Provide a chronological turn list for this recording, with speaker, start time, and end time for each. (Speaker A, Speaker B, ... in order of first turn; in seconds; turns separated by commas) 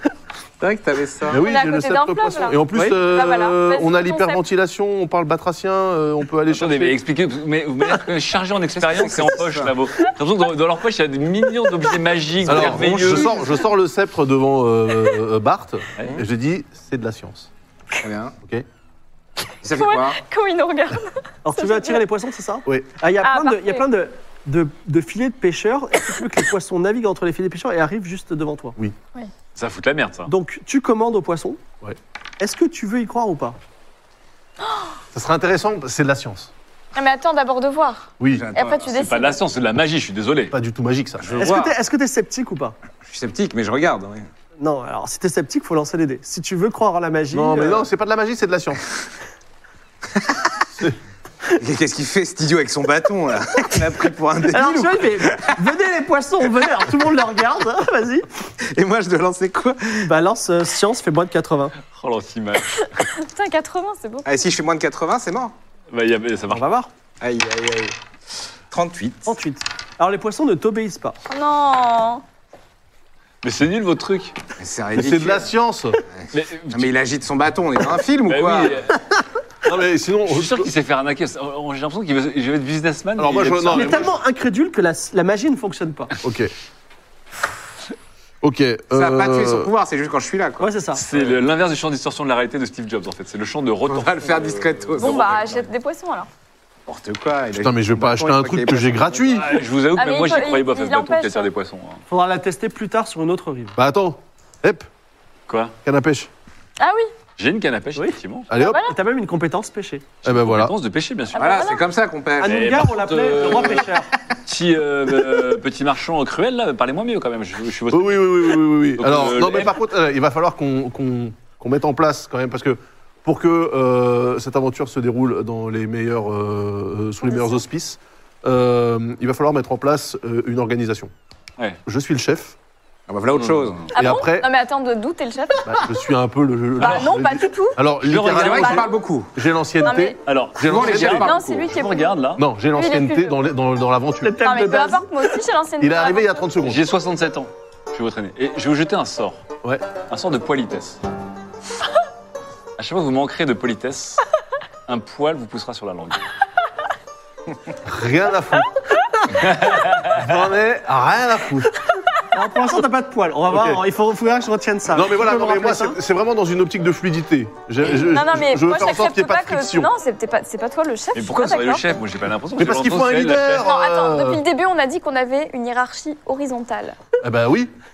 Speaker A: 0.6-1.5, Speaker B: 1.3-7.0, Speaker C: 1.4-4.4, Speaker D: 6.5-13.4, Speaker A: 8.8-9.8, Speaker B: 12.4-17.5, Speaker A: 12.4-13.7, Speaker A: 18.0-18.4, Speaker A: 19.6-20.2, Speaker C: 19.7-22.0, Speaker E: 21.4-28.8, Speaker B: 22.7-22.9, Speaker C: 23.2-23.9, Speaker D: 29.6-30.3, Speaker E: 30.3-31.6, Speaker E: 32.4-33.6, Speaker B: 35.1-36.5, Speaker C: 37.0-39.4, Speaker B: 38.2-38.5, Speaker A: 38.3-39.2, Speaker D: 38.9-40.5, Speaker B: 40.5-41.5, Speaker A: 41.2-41.8, Speaker E: 41.4-42.8, Speaker A: 43.1-44.3, Speaker E: 44.6-47.9, Speaker B: 47.3-48.8, Speaker A: 50.1-50.6, Speaker A: 51.6-55.6, Speaker E: 54.5-58.3, Speaker A: 58.6-60.1, Speaker E: 60.0-61.8, Speaker D: 61.8-63.1, Speaker C: 63.1-64.3, Speaker A: 64.2-65.5, Speaker D: 65.9-66.7, Speaker E: 66.5-66.9, Speaker A: 67.2-68.0, Speaker A: 68.7-69.3, Speaker E: 69.3-71.2, Speaker C: 71.3-72.2, Speaker D: 73.4-74.4, Speaker A: 74.6-75.5, Speaker B: 74.9-76.0, Speaker A: 76.2-78.9, Speaker D: 76.3-76.9, Speaker D: 78.3-79.0, Speaker B: 79.6-80.7, Speaker D: 80.3-84.1, Speaker B: 83.2-84.1, Speaker E: 83.7-86.1, Speaker B: 86.2-86.5, Speaker B: 88.4-89.7, Speaker A: 88.9-91.3, Speaker E: 90.6-91.0, Speaker D: 91.0-95.7, Speaker A: 93.9-95.4, Speaker C: 95.0-96.3, Speaker A: 96.9-99.6, Speaker B: 97.6-99.6, Speaker D: 99.3-102.0, Speaker C: 100.0-101.5, Speaker E: 102.1-103.8, Speaker B: 103.8-104.9, Speaker D: 105.5-105.8, Speaker B: 105.8-106.3, Speaker C: 106.8-107.1, Speaker D: 107.4-108.5, Speaker E: 108.0-110.1, Speaker B: 108.5-108.8, Speaker C: 108.6-109.0, Speaker D: 110.2-111.7, Speaker B: 110.2-110.7, Speaker C: 111.3-111.8, Speaker A: 111.4-112.8, Speaker E: 112.4-114.1, Speaker D: 112.4-113.9, Speaker D: 114.5-119.8, Speaker B: 117.9-131.1, Speaker C: 127.2-127.6, Speaker B: 131.9-132.6, Speaker A: 133.1-133.9, Speaker C: 133.9-135.8, Speaker B: 133.9-134.5, Speaker B: 135.7-141.3, Speaker C: 136.8-137.8, Speaker D: 136.8-137.2, Speaker D: 138.0-138.8, Speaker A: 138.3-139.3, Speaker C: 138.5-138.8, Speaker C: 139.8-140.2, Speaker D: 140.2-142.5, Speaker A: 140.6-141.4, Speaker C: 141.2-142.2, Speaker B: 142.4-144.4, Speaker C: 142.8-143.4, Speaker E: 144.2-145.4, Speaker C: 144.4-146.5, Speaker B: 145.8-146.8, Speaker D: 146.7-149.4, Speaker D: 150.1-151.0, Speaker D: 152.8-154.2, Speaker D: 154.9-156.2, Speaker B: 157.8-158.8, Speaker D: 159.4-160.2, Speaker B: 160.0-161.8, Speaker E: 162.3-166.0, Speaker B: 163.5-163.8, Speaker B: 164.9-169.9, Speaker C: 168.0-171.8, Speaker D: 171.1-173.6, Speaker B: 172.6-174.4, Speaker C: 173.5-177.0, Speaker B: 177.2-177.7